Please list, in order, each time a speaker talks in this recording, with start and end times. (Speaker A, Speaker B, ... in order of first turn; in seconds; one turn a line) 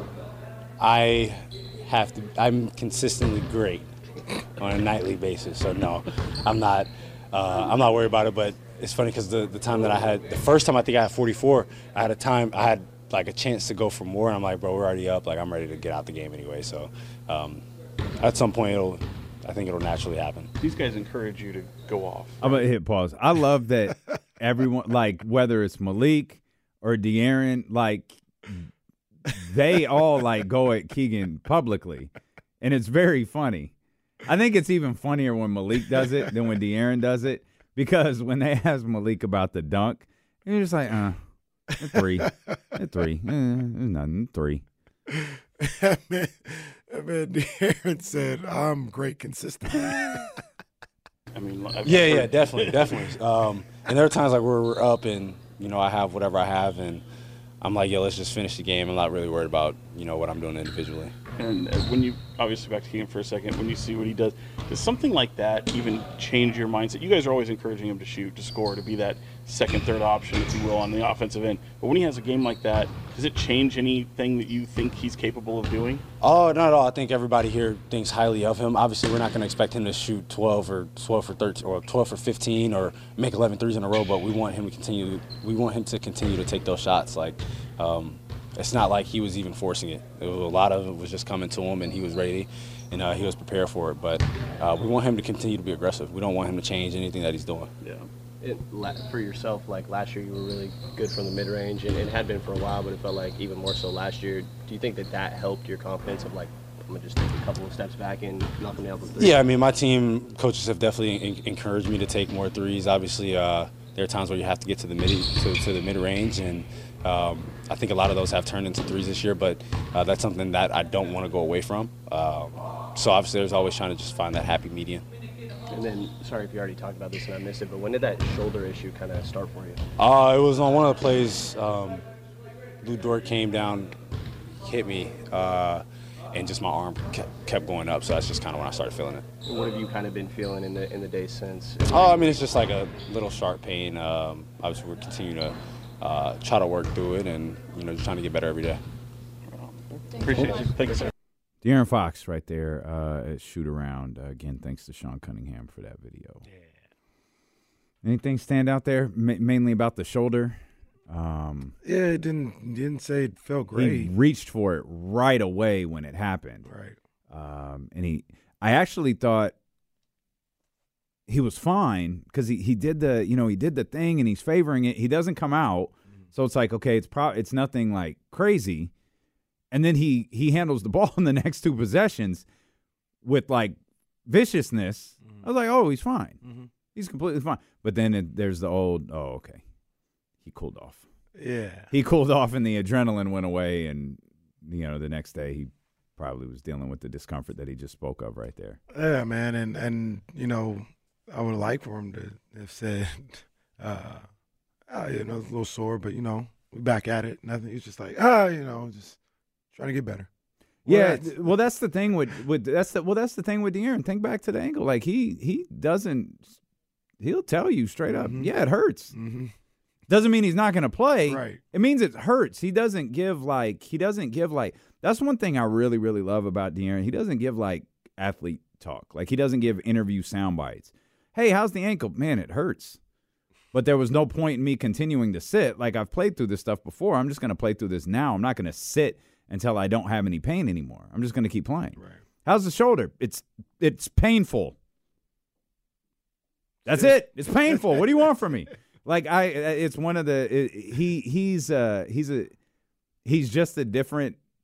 Speaker A: 0.8-3.9
Speaker A: 4.6-17.6
Speaker A: 18.2-20.5
Speaker B: 20.6-22.6
Speaker C: 22.4-28.7
Speaker C: 29.3-41.2
Speaker C: 41.7-44.6
Speaker D: 41.9-42.3
Speaker D: 45.1-50.3
Speaker B: 51.3-53.1
Speaker A: 51.8-57.0
Speaker A: 57.6-61.1
Speaker B: 61.4-76.0
Speaker A: 76.2-97.7
Speaker B: 97.8-98.1
Speaker E: 98.4-109.4
Speaker A: 109.2-125.0
Speaker E: 125.7-129.8
Speaker A: 130.0-132.0
Speaker A: 132.8-133.9
Speaker A: 134.6-139.2
Speaker E: 139.4-142.5
Speaker A: 141.9-148.8
Speaker B: 149.5-151.1
Speaker C: 151.6-156.4
Speaker C: 158.0-161.8
Speaker D: 161.8-164.1
Speaker C: 163.7-166.7
Speaker D: 166.6-167.0
Speaker C: 167.3-169.5
Speaker C: 171.3-178.9
Speaker C: 179.7-182.4
Speaker C: 183.2-186.4
Speaker D: 186.4-186.7
Speaker C: 186.9-189.6
Speaker C: 190.4-191.1
Speaker D: 191.3-191.9
Speaker C: 191.9-198.8
Speaker D: 198.9-204.2
Speaker D: 204.9-209.2
Speaker D: 209.7-210.3
Speaker D: 210.8-211.6
Speaker C: 210.8-216.5
Speaker C: 217.2-219.2
Speaker D: 218.1-218.5
Speaker D: 219.1-219.5
Speaker C: 220.1-233.0
Speaker D: 221.2-221.6
Speaker C: 233.7-244.8
Speaker C: 246.8-252.5
Speaker C: 253.2-254.4